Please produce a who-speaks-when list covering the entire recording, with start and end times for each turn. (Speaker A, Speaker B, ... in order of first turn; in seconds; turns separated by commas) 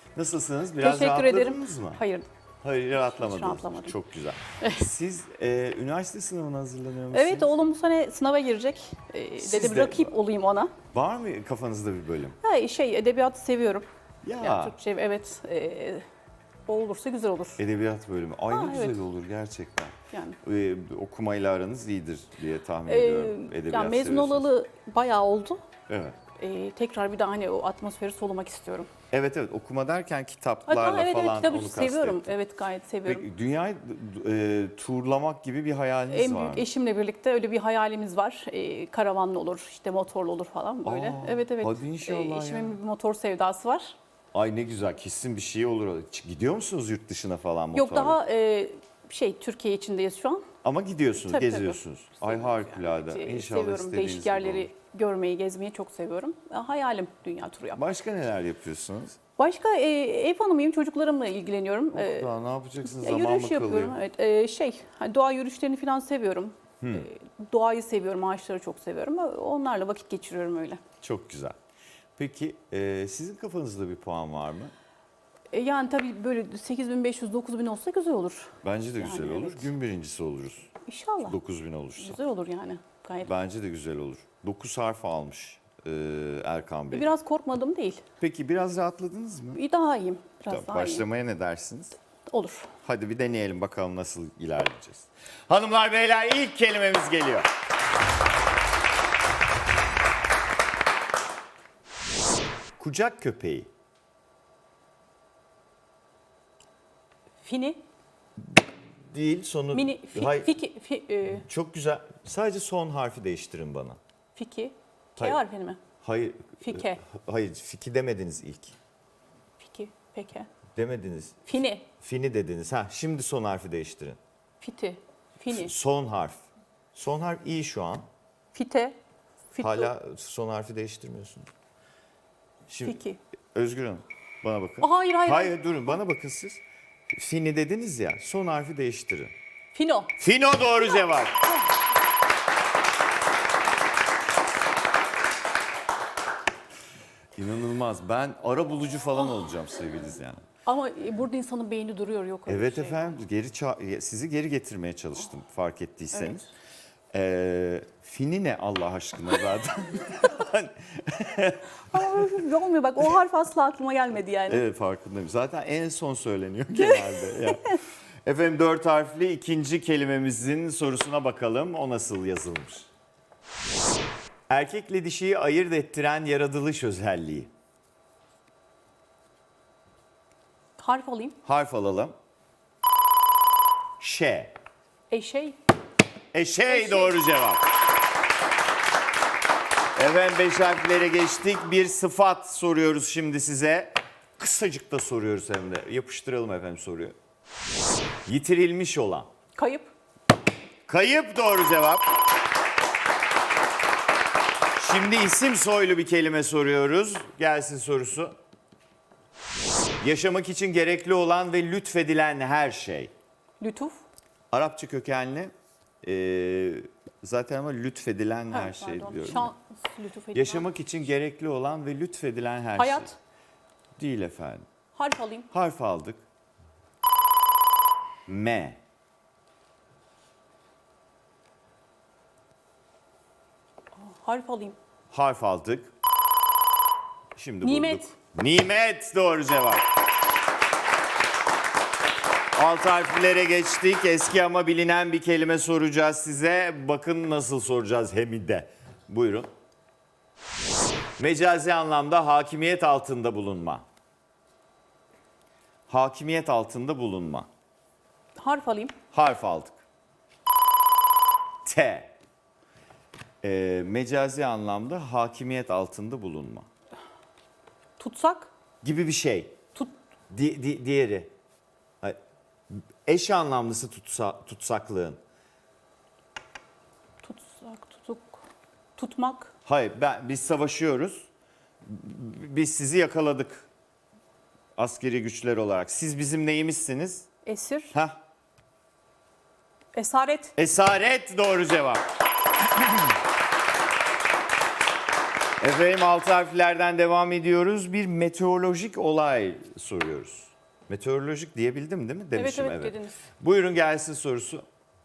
Speaker A: 0.1-2.0, Speaker B: 0.8-2.3, Speaker A: 2.6-7.6, Speaker B: 2.9-4.0, Speaker B: 4.6-4.9, Speaker B: 7.1-10.7, Speaker A: 9.4-10.1, Speaker A: 10.9-12.4, Speaker B: 12.4-13.9, Speaker A: 14.2-14.7, Speaker B: 14.4-16.1, Speaker B: 16.7-17.6, Speaker A: 17.6-24.5, Speaker B: 18.5-19.0, Speaker B: 20.1-20.4, Speaker B: 22.9-25.6, Speaker A: 25.9-26.2, Speaker B: 26.4-28.9, Speaker A: 29.1-32.3, Speaker B: 30.6-33.3, Speaker A: 33.1-36.7, Speaker B: 36.1-44.0, Speaker A: 40.8-42.8, Speaker A: 44.3-48.2, Speaker B: 47.7-50.4, Speaker A: 50.6-54.7, Speaker B: 51.2-57.8, Speaker A: 57.7-59.2, Speaker B: 59.4-62.3, Speaker A: 61.9-64.0, Speaker B: 62.8-70.8, Speaker A: 66.8-67.1, Speaker A: 71.0-71.5, Speaker A: 72.2-74.7, Speaker B: 75.5-79.7, Speaker A: 78.6-80.7, Speaker B: 80.8-81.4, Speaker A: 81.2-82.2, Speaker B: 82.0-83.3, Speaker A: 83.2-87.1, Speaker B: 86.9-88.0, Speaker A: 88.2-89.6, Speaker B: 89.5-91.0, Speaker A: 90.5-91.9, Speaker B: 92.3-92.7, Speaker A: 92.8-97.5, Speaker A: 102.8-103.7, Speaker B: 107.4-107.8, Speaker A: 109.0-110.5, Speaker B: 109.7-111.5, Speaker A: 111.4-114.0, Speaker B: 114.3-115.8, Speaker A: 116.0-118.7, Speaker B: 116.6-117.0, Speaker B: 119.6-120.5, Speaker A: 120.7-121.4, Speaker B: 121.5-121.9, Speaker A: 122.0-124.2, Speaker B: 124.6-125.7, Speaker A: 125.5-126.4, Speaker A: 126.9-128.1, Speaker B: 128.5-129.0, Speaker B: 129.5-129.9, Speaker A: 129.6-131.5, Speaker A: 132.7-133.0, Speaker B: 132.8-133.2, Speaker A: 133.5-136.6, Speaker B: 134.8-135.5, Speaker A: 137.1-139.3, Speaker B: 139.7-140.1, Speaker A: 140.2-141.4, Speaker A: 147.3-150.4, Speaker B: 150.6-153.1, Speaker A: 152.5-156.4, Speaker B: 156.1-156.5, Speaker A: 157.1-162.3, Speaker B: 161.9-164.6, Speaker A: 164.5-172.9, Speaker B: 166.8-167.8, Speaker A: 174.5-177.5, Speaker B: 180.8-181.3, Speaker A: 181.4-182.1, Speaker A: 184.0-184.5, Speaker B: 185.1-185.6, Speaker A: 186.3-187.6, Speaker B: 186.7-187.2, Speaker A: 189.9-197.1, Speaker A: 198.2-199.3, Speaker B: 199.6-199.9, Speaker A: 200.9-202.0, Speaker A: 204.7-208.3, Speaker A: 210.0-213.1, Speaker B: 213.6-214.0, Speaker A: 214.5-215.5, Speaker A: 216.0-219.5, Speaker B: 218.5-220.7, Speaker A: 220.3-223.1, Speaker B: 222.8-223.1, Speaker A: 224.0-224.7, Speaker B: 224.9-225.5, Speaker A: 225.5-226.2, Speaker A: 228.3-228.8, Speaker B: 234.0-234.8, Speaker A: 235.1-235.9, Speaker A: 237.3-239.8, Speaker B: 237.6-238.1, Speaker A: 242.6-249.5, Speaker A: 251.2-253.8, Speaker A: 255.9-257.5, Speaker B: 258.4-258.9, Speaker A: 259.1-259.7, Speaker A: 261.6-262.1, Speaker A: 263.4-266.6, Speaker B: 268.0-268.5, Speaker A: 268.8-269.6, Speaker A: 270.3-271.3, Speaker A: 272.7-275.2, Speaker B: 277.2-278.4, Speaker B: 279.0-279.5, Speaker A: 279.6-281.2, Speaker A: 281.8-283.7, Speaker A: 284.8-287.3, Speaker B: 287.4-287.9, Speaker B: 289.9-290.5, Speaker A: 290.6-292.0, Speaker A: 295.6-304.6, Speaker B: 302.3-303.2